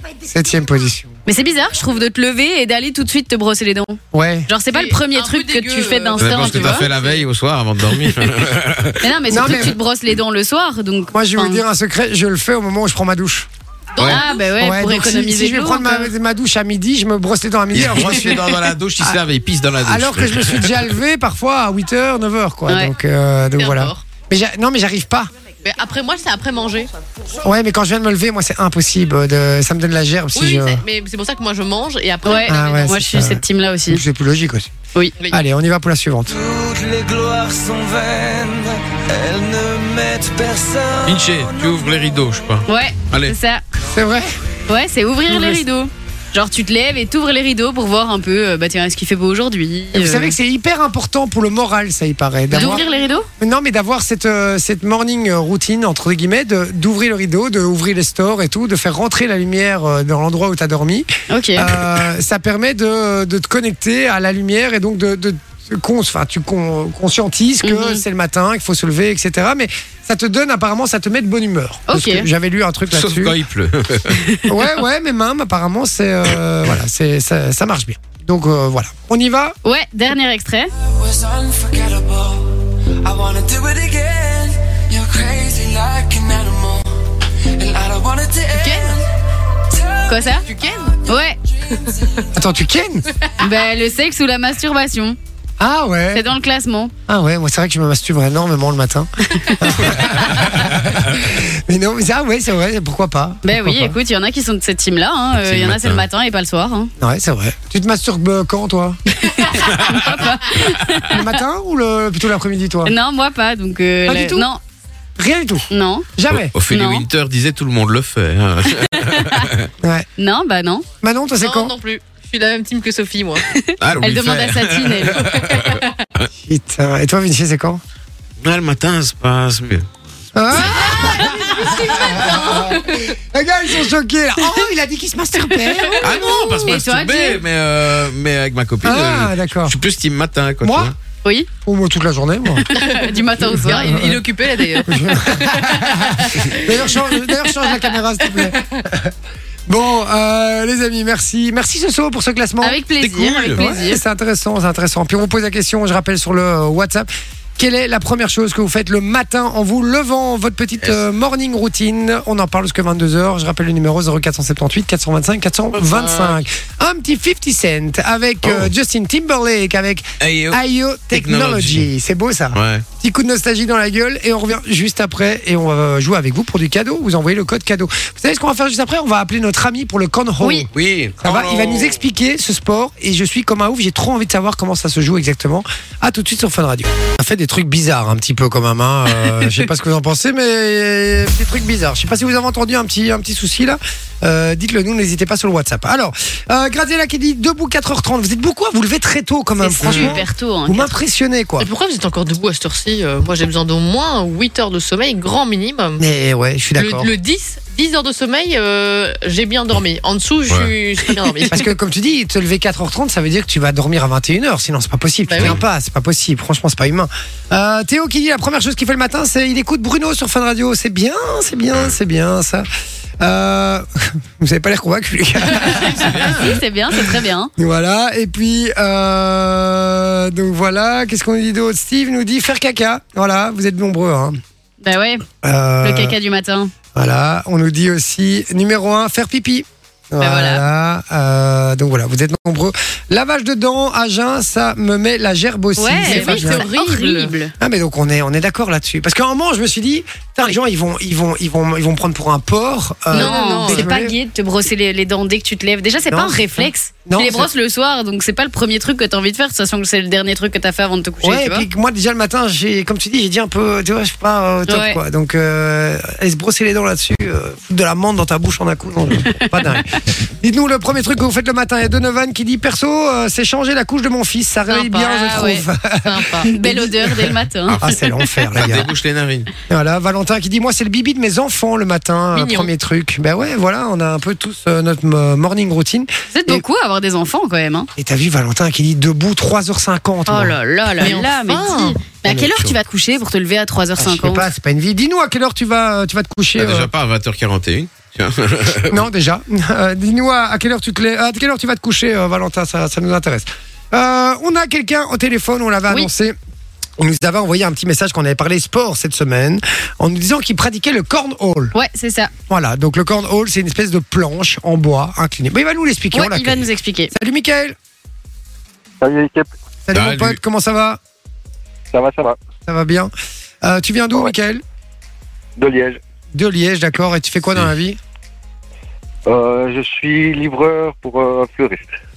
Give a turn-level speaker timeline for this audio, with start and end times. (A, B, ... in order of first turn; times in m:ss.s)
0:00.2-0:01.1 A
0:01.3-0:06.9 B
0:04.1-0:04.5 A
0:04.7-0:07.2 C
0:06.2-0:09.0 D
0:09.0-0:11.6 B
0:09.3-0:09.8 A
0:11.1-0:13.5 A
0:14.0-0:14.4 C
0:14.0-0:16.1 B
0:14.6-0:18.5 A
0:17.7-0:20.9 D
0:19.8-0:25.3 A
0:22.7-0:22.9 B
0:23.6-0:24.0 C
0:25.6-0:26.9 C
0:27.4-0:30.8 A
0:30.3-0:33.0 C
0:32.2-0:34.0 B
0:32.5-0:34.7 A
0:35.3-0:36.3 A
0:36.3-0:42.0 E
0:41.1-0:43.4 D
0:42.7-0:43.6 B
0:43.9-0:44.4 A
0:44.7-0:50.4 B
0:45.3-0:45.6 A
0:49.9-0:52.8 A
0:52.5-0:53.3 B
0:52.6-0:53.1 C
0:53.4-1:13.4 A
1:01.3-1:01.7 B
1:07.6-1:08.0 B
1:11.9-1:12.3 B
1:12.9-1:14.2 D
1:14.1-1:14.5 B
1:14.5-1:19.6 A
1:19.6-1:20.7 B
1:20.9-1:26.9 E
1:27.6-1:29.0 E
1:28.6-1:29.0 C
1:29.8-1:30.4 E
1:30.1-1:30.4 B
1:30.4-1:31.0 C
1:31.1-1:31.4 B
1:31.9-1:32.3 E
1:32.3-1:33.1 A
1:33.4-1:35.2 B
1:35.6-1:36.3 A
1:36.1-1:36.9 B
1:37.1-1:44.0 A
1:43.4-1:46.9 B
1:45.4-1:46.0 D
1:47.0-1:49.0 A
1:49.2-1:51.4 B
1:51.1-1:52.9 A
1:52.8-1:54.6 B
1:54.1-1:54.5 A
1:55.2-1:56.5 A
1:55.7-1:56.1 B
1:56.3-1:59.7 D
1:56.7-1:57.1 B
1:58.9-1:59.5 B
1:59.8-2:00.1 A
2:00.2-2:00.8 B
2:01.0-2:01.7 A
2:01.4-2:03.4 C
2:03.5-2:05.6 B
2:03.8-2:06.3 D
2:06.4-2:07.8 A
2:08.4-2:09.9 D
2:10.4-2:16.6 A
2:10.8-2:12.3 B
2:11.9-2:12.6 C
2:16.0-2:20.9 D
2:16.7-2:17.4 B
2:18.8-2:19.8 A
2:20.6-2:20.9 A
2:21.2-2:21.5 B
2:21.6-2:22.7 A
2:22.7-2:24.0 B
2:22.7-2:26.5 C
2:23.4-2:24.2 A
2:24.8-2:29.1 A
2:29.7-2:32.8 A
2:32.6-2:34.0 B
2:33.0-2:33.6 D
2:33.5-3:00.7 A
2:45.7-2:46.4 D
2:48.4-2:48.7 D
2:50.2-2:50.6 D
2:51.1-2:51.9 D
2:52.6-2:52.8 D
3:00.4-3:00.7 B
3:00.7-3:02.0 D
3:01.2-3:21.7 A
3:19.6-3:21.0 B
3:21.6-3:26.0 C
3:26.0-3:27.1 A
3:26.8-3:31.6 C
3:31.5-3:42.7 A
3:35.3-3:35.6 C
3:43.2-3:46.4 A
3:45.6-3:47.5 B
3:45.6-3:46.6 D
3:47.6-3:54.4 A
3:54.8-3:55.2 B
3:55.4-3:56.2 A
3:55.8-3:56.7 B
3:56.9-4:06.6 A
4:00.2-4:00.6 B
4:05.8-4:07.5 B
4:06.1-4:07.3 C
4:07.6-4:14.2 A
4:13.1-4:13.9 C
4:13.1-4:21.7 B
4:16.1-4:17.5 A
4:21.2-4:29.9 A
4:24.7-4:25.0 B
4:30.4-4:38.9 A
4:34.7-4:36.5 C
4:35.0-4:35.6 B
4:36.4-4:38.3 B
4:37.7-4:38.0 D
4:38.5-4:39.5 D
4:39.7-4:46.6 A
4:42.3-4:42.7 C
4:46.3-4:47.9 B
4:48.0-4:51.2 A
4:50.3-4:54.5 B
4:51.0-4:52.0 C
4:52.2-4:52.7 A
4:54.0-4:56.9 A
4:56.6-4:59.0 D
4:58.9-5:06.4 A
5:07.0-5:11.7 A
5:11.7-5:12.3 B
5:12.5-5:17.8 A
5:16.1-5:17.1 B
5:19.0-5:19.5 F
5:19.9-5:21.0 A
5:19.9-5:20.4 D
5:21.9-5:22.4 F
5:22.7-5:23.1 A
5:23.6-5:24.6 A
5:25.6-5:26.0 F
5:26.3-5:28.0 A
5:29.3-5:31.9 F